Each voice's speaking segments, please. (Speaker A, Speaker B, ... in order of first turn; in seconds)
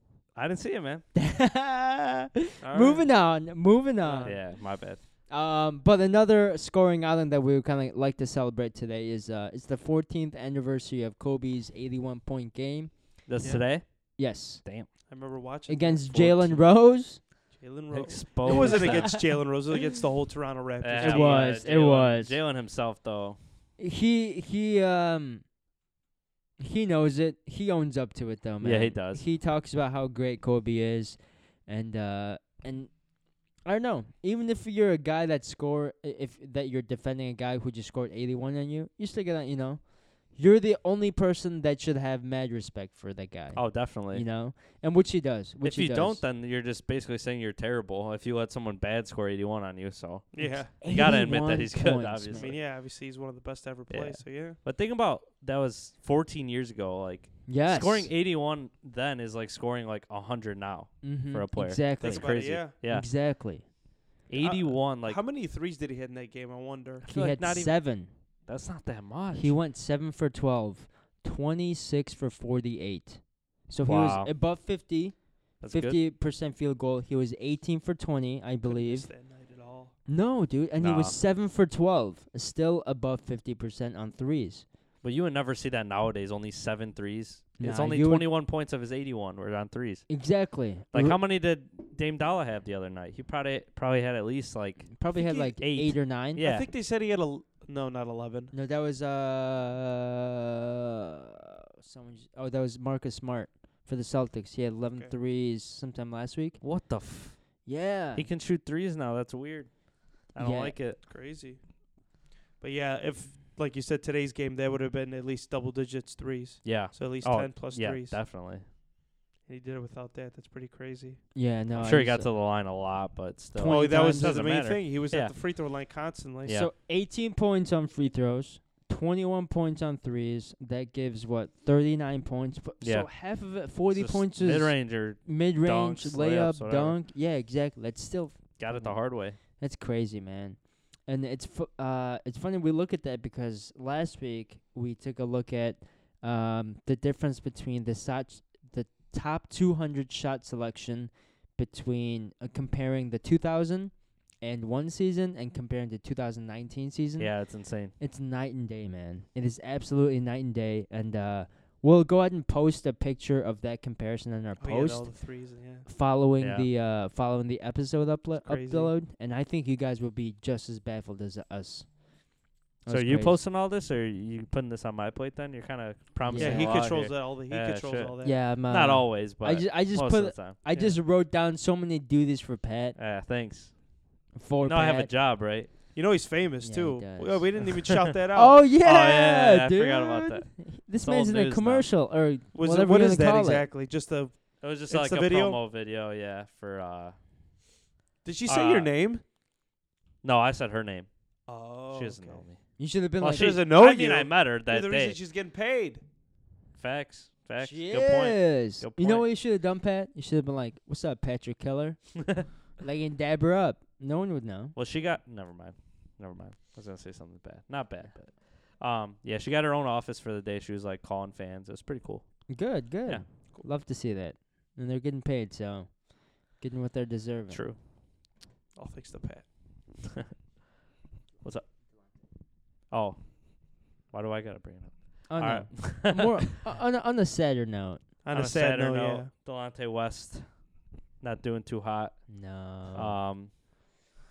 Speaker A: 0.3-1.0, 4.2-5.0, 13.2-14.9, 16.1-16.7, 17.9-19.4, 20.8-23.4, 28.6-29.2, 43.5-44.3, 45.6-52.6, 53.9-63.1, 64.3-65.2, 67.0-69.5, 73.8-74.3, 75.6-76.0, 80.8-81.2, 85.0-96.7, 106.6-111.0, 116.6-118.7, 121.7-125.3, 132.8-137.0, 138.6-139.4, 157.2-157.9, 166.4-166.7, 172.9-180.6, 182.9-185.7, 188.8-191.9, 194.6-197.2, 198.5-198.9, 200.2-201.1, 201.9-205.2, 206.8-209.2, 214.7-223.3, 227.5-227.8, 231.4-231.7, 232.9-236.5, 238.3-243.6
Speaker B: 1.1-15.0, 15.7-17.2, 18.4-19.2, 21.0-22.4, 23.8-25.4, 26.6-46.2, 50.4-52.6, 57.5-58.1, 61.0-63.7, 67.1-68.2, 69.3-79.1, 80.0-84.7, 87.6-88.3, 90.1-91.2, 94.9-96.4, 98.5-100.3, 101.8-106.6, 107.6-108.3, 110.4-110.8, 121.3-122.3, 123.5-124.4, 126.5-173.4, 176.2-176.9, 178.2-183.0, 184.3-185.1, 186.6-187.7, 188.3-193.7, 202.8-203.6, 207.6-214.7, 222.5-227.7, 235.3-238.1, 242.3-243.2
Speaker C: 2.6-3.2, 4.0-4.4, 13.4-13.7, 15.1-16.5, 17.5-21.6, 50.3-50.7, 52.3-54.6, 62.0-62.7, 64.4-67.0, 78.6-80.0, 95.1-95.5, 96.4-98.5, 111.0-111.7, 112.6-118.2, 119.5-121.2, 123.7-126.6, 164.6-165.8, 168.3-168.9, 176.3-178.4, 180.7-181.0, 185.9-188.7, 192.5-195.6, 198.2-199.2, 201.5-202.4, 203.3-206.0, 228.7-229.5, 238.2-239.3